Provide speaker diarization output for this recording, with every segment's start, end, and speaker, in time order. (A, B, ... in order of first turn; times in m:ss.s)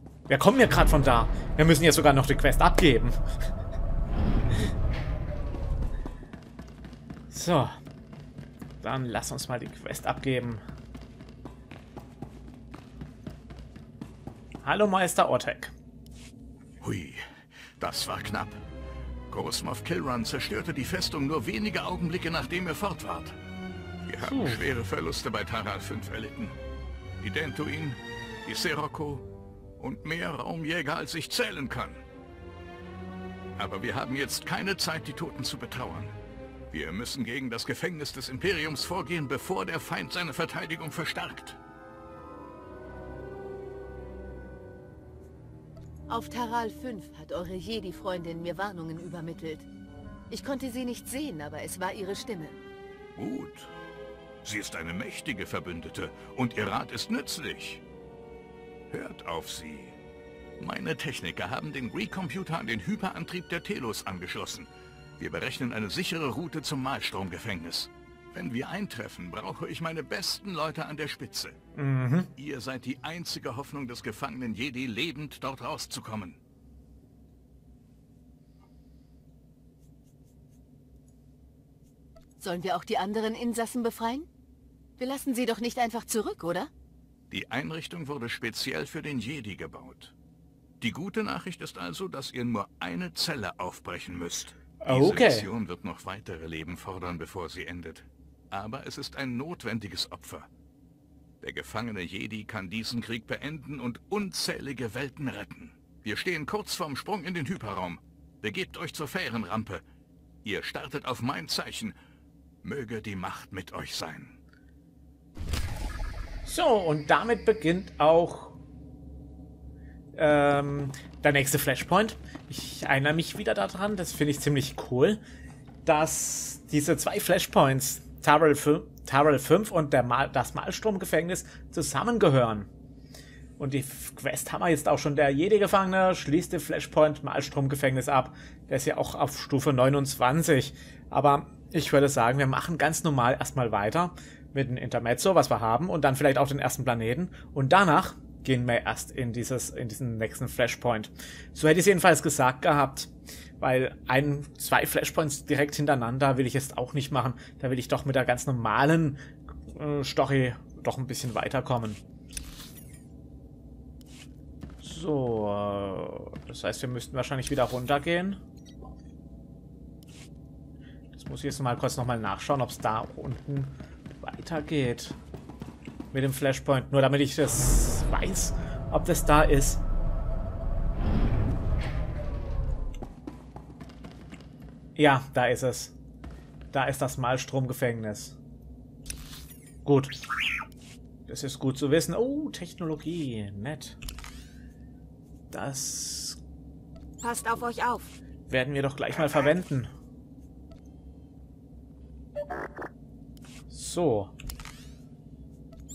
0:00.3-0:03.2 A
0:07.3-0:07.8 A
0:08.8-0:10.6 A
0:14.6-0:15.7 A
0:16.8-0:17.2 B
0:17.8-0:18.6 B
0:19.3-0:23.4 B
0:24.0-0:26.6 B
0:24.2-0:24.6 A
0:27.2-0:29.3 B
0:29.8-0:32.0 B
0:33.6-0:36.1 B
0:36.7-0:41.6 B
0:46.1-0:49.7 C
0:50.3-0:52.6 C
0:53.2-0:53.7 B
0:54.4-0:57.8 B
0:58.9-1:00.0 B
1:00.6-1:11.6 B
1:11.8-1:12.3 A
1:12.4-1:16.4 B
1:22.4-1:24.3 C
1:25.0-1:26.7 C
1:27.3-1:30.1 B
1:30.8-1:40.5 B
1:34.8-1:35.5 A
1:41.4-1:49.8 B
1:50.4-1:52.0 B
1:52.6-1:54.4 B
1:56.4-1:58.6 A
2:00.1-2:05.2 A
2:05.8-2:12.7 A
2:13.6-2:42.0 A
2:44.8-2:48.4 A
2:51.1-2:55.2 A
2:56.1-2:59.8 A
3:05.0-3:05.9 A
3:06.7-3:08.4 A
3:09.8-3:10.2 A
3:11.3-3:14.0 A
3:15.5-3:16.4 A
3:17.2-3:18.1 C
3:18.5-3:19.9 A
3:23.7-3:24.3 A